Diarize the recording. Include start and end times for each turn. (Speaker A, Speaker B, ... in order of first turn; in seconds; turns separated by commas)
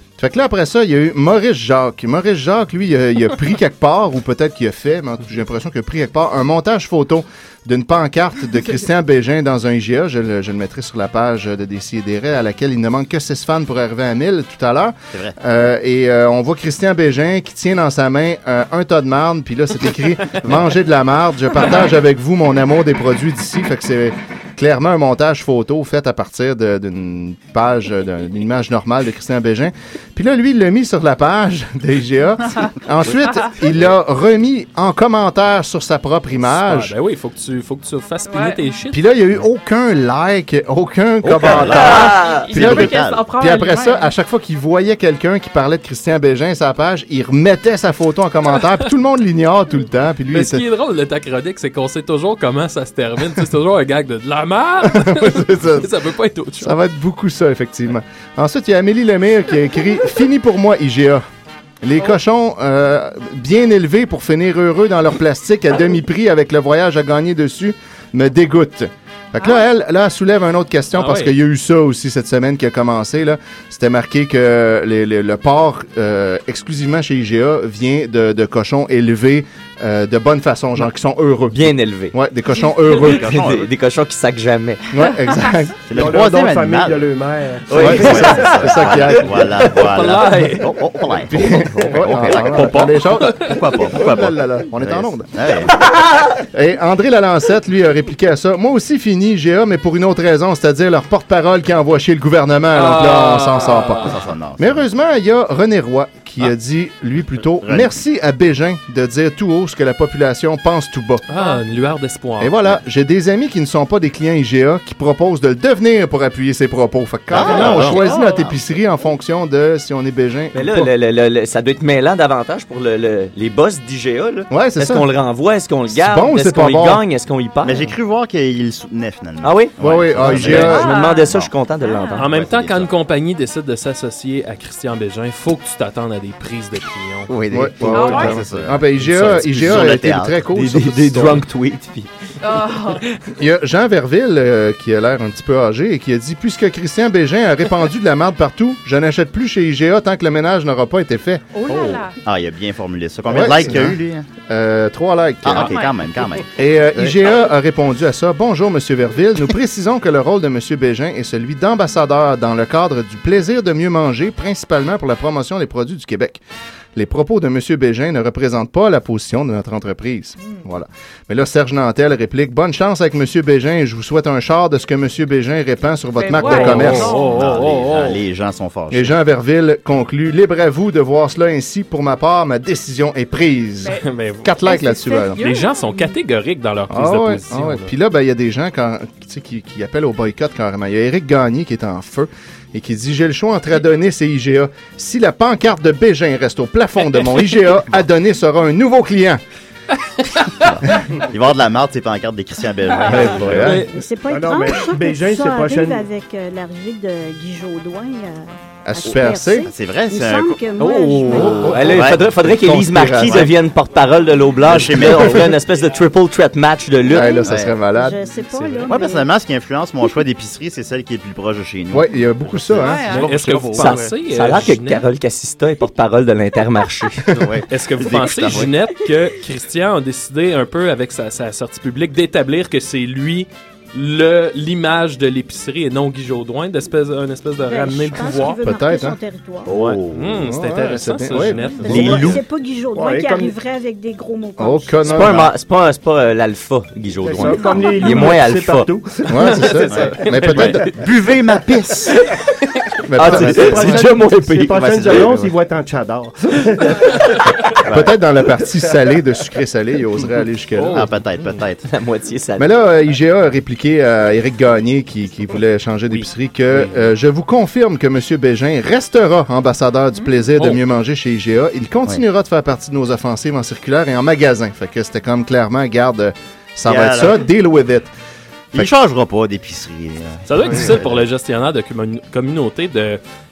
Speaker A: 0.2-36.9, Speaker B: 36.5-39.1, Speaker C: 38.2-38.6, Speaker A: 38.9-50.6, Speaker D: 41.2-42.6, Speaker E: 41.3-43.2, Speaker C: 42.0-44.1, Speaker B: 50.3-56.8, Speaker A: 54.8-55.9, Speaker A: 56.6-61.2, Speaker A: 61.8-83.4, Speaker B: 71.0-71.3, Speaker D: 81.5-82.2, Speaker E: 82.9-83.7, Speaker D: 83.3-84.8, Speaker A: 84.9-85.8, Speaker E: 85.9-87.0, Speaker F: 85.9-88.3, Speaker E: 87.7-92.8, Speaker D: 87.7-88.4, Speaker A: 87.7-89.6, Speaker B: 89.7-90.7, Speaker A: 91.3-95.3, Speaker B: 92.3-93.6, Speaker E: 93.4-95.8, Speaker A: 96.4-111.2, Speaker B: 102.7-104.2, Speaker E: 104.0-104.8, Speaker E: 107.6-107.9, Speaker B: 111.3-112.6, Speaker C: 111.3-111.6, Speaker A: 112.4-120.9, Speaker E: 117.3-118.5, Speaker B: 117.5-118.0, Speaker D: 120.5-127.8, Speaker A: 124.5-125.1, Speaker A: 125.9-127.0, Speaker E: 127.6-131.5, Speaker D: 129.4-132.2, Speaker A: 129.8-130.9, Speaker C: 130.7-132.2, Speaker B: 132.2-137.3, Speaker E: 132.2-132.9, Speaker E: 137.3-140.4, Speaker A: 137.5-141.4, Speaker C: 137.9-138.4, Speaker D: 140.5-142.1, Speaker C: 142.4-143.0, Speaker A: 143.3-151.4, Speaker C: 151.5-152.2, Speaker E: 152.2-154.3, Speaker A: 153.3-155.8, Speaker E: 155.4-157.2, Speaker C: 155.6-155.9, Speaker A: 156.5-166.4, Speaker A: 166.9-177.1, Speaker C: 176.2-177.5, Speaker B: 176.4-178.2, Speaker E: 176.8-179.1, Speaker A: 178.9-185.4, Speaker B: 184.0-184.6, Speaker C: 184.6-186.2, Speaker B: 185.4-187.9, Speaker A: 186.9-199.4, Speaker E: 200.6-203.8, Speaker A: 203.1-203.9, Speaker B: 203.5-203.9, Speaker G: 203.9-211.8, Speaker F: 204.3-206.1, Speaker A: 208.8-209.7, Speaker E: 209.7-210.6, Speaker D: 210.8-217.3, Speaker A: 211.3-213.5, Speaker E: 211.4-212.3, Speaker E: 213.0-213.5, Speaker E: 214.6-215.6, Speaker A: 214.9-215.4, Speaker A: 217.1-218.8, Speaker G: 217.1-219.3, Speaker E: 217.4-217.7, Speaker E: 218.9-222.9, Speaker A: 221.9-224.0, Speaker C: 222.8-223.3, Speaker B: 223.1-225.0, Speaker D: 223.8-227.3, Speaker E: 227.3-228.7, Speaker B: 227.7-238.6, Speaker G: 237.7-239.7, Speaker A: 238.6-239.2, Speaker E: 239.7-240.4, Speaker B: 240.1-242.3, Speaker A: 240.4-242.3, Speaker G: 241.8-245.3, Speaker D: 241.8-242.4, Speaker E: 241.8-242.3, Speaker F: 242.9-243.6, Speaker A: 244.6-245.5, Speaker D: 245.1-248.9, Speaker F: 247.2-249.8, Speaker E: 247.4-247.8, Speaker A: 249.3-250.9, Speaker B: 249.6-250.9, Speaker E: 249.9-252.2, Speaker A: 253.1-254.0, Speaker D: 253.2-255.3, Speaker F: 253.2-257.3, Speaker E: 253.3-254.0, Speaker E: 254.8-255.5, Speaker E: 257.8-258.2, Speaker A: 257.9-261.1, Speaker B: 260.8-261.1, Speaker E: 260.9-261.8, Speaker D: 261.9-262.7, Speaker A: 262.6-278.1, Speaker E: 276.9-277.4, Speaker E: 278.7-281.2, Speaker B: 280.5-283.2, Speaker A: 280.7-280.9